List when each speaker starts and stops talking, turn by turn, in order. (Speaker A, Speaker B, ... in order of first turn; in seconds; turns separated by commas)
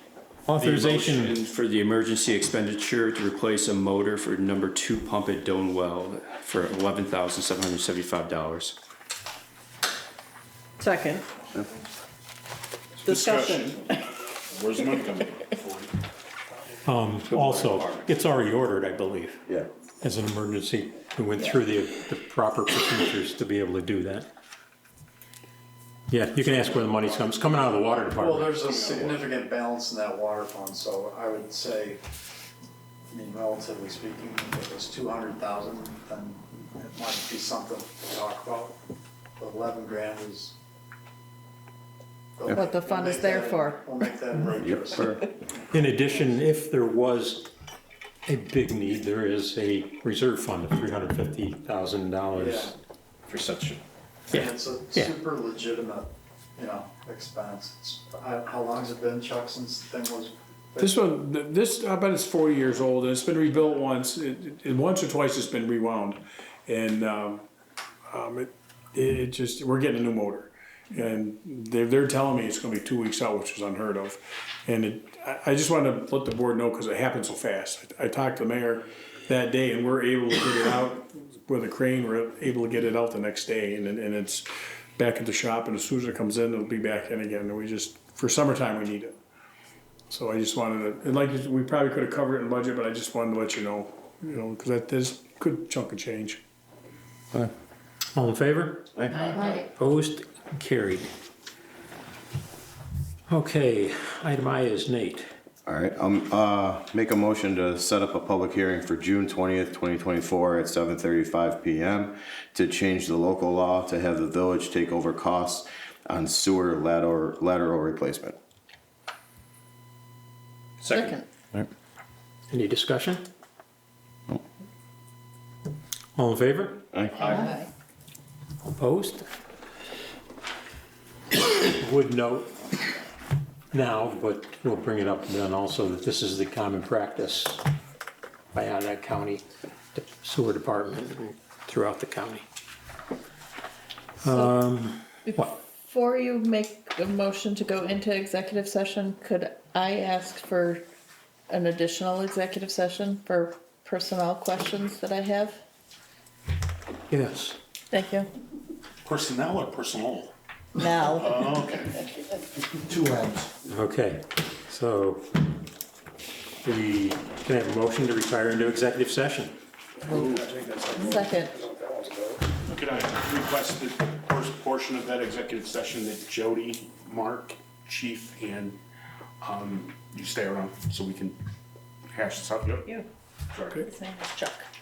Speaker A: 0.5-1.4, Speaker B: 0.6-8.8, Speaker C: 10.8-11.2, Speaker D: 13.0-13.9, Speaker C: 13.1-13.4, Speaker D: 14.5-15.9, Speaker A: 16.8-19.4, Speaker B: 17.3-18.1, Speaker A: 20.0-24.3, Speaker A: 26.1-28.5, Speaker E: 26.6-32.0, Speaker D: 26.7-27.0, Speaker D: 27.6-29.3, Speaker E: 33.1-38.8, Speaker E: 39.4-40.5, Speaker E: 42.4-45.2, Speaker C: 42.6-43.8, Speaker F: 44.6-45.2, Speaker A: 45.7-47.5, Speaker A: 48.2-52.7, Speaker E: 52.3-52.7, Speaker B: 53.3-53.8, Speaker E: 54.3-61.0, Speaker A: 54.3-55.1, Speaker G: 60.8-67.4, Speaker G: 68.1-84.5, Speaker G: 85.0-89.1, Speaker C: 87.3-88.1, Speaker G: 90.1-96.2, Speaker C: 90.2-90.5, Speaker C: 91.0-91.5, Speaker C: 93.8-96.4, Speaker A: 98.1-98.9, Speaker F: 99.0-99.5, Speaker C: 99.3-99.6, Speaker A: 99.5-101.1, Speaker A: 103.3-105.3, Speaker F: 105.7-118.4, Speaker A: 120.8-121.1, Speaker C: 120.9-121.2, Speaker A: 122.5-123.2, Speaker A: 126.2-126.8, Speaker F: 126.9-127.4, Speaker C: 127.2-127.7, Speaker A: 128.7-129.3, Speaker A: 131.4-132.6, Speaker A: 133.7-137.6, Speaker A: 138.5-142.4, Speaker A: 144.2-145.6, Speaker C: 145.3-150.8, Speaker C: 151.5-155.6, Speaker A: 157.1-157.6, Speaker C: 157.9-158.3, Speaker D: 159.0-162.1, Speaker C: 160.8-161.5, Speaker E: 162.8-163.5, Speaker A: 163.7-165.3, Speaker A: 166.6-169.5, Speaker D: 170.1-171.3, Speaker C: 170.1-172.4, Speaker D: 172.6-178.8, Speaker D: 179.4-181.4, Speaker D: 182.1-182.9, Speaker D: 183.5-183.9, Speaker C: 183.7-184.7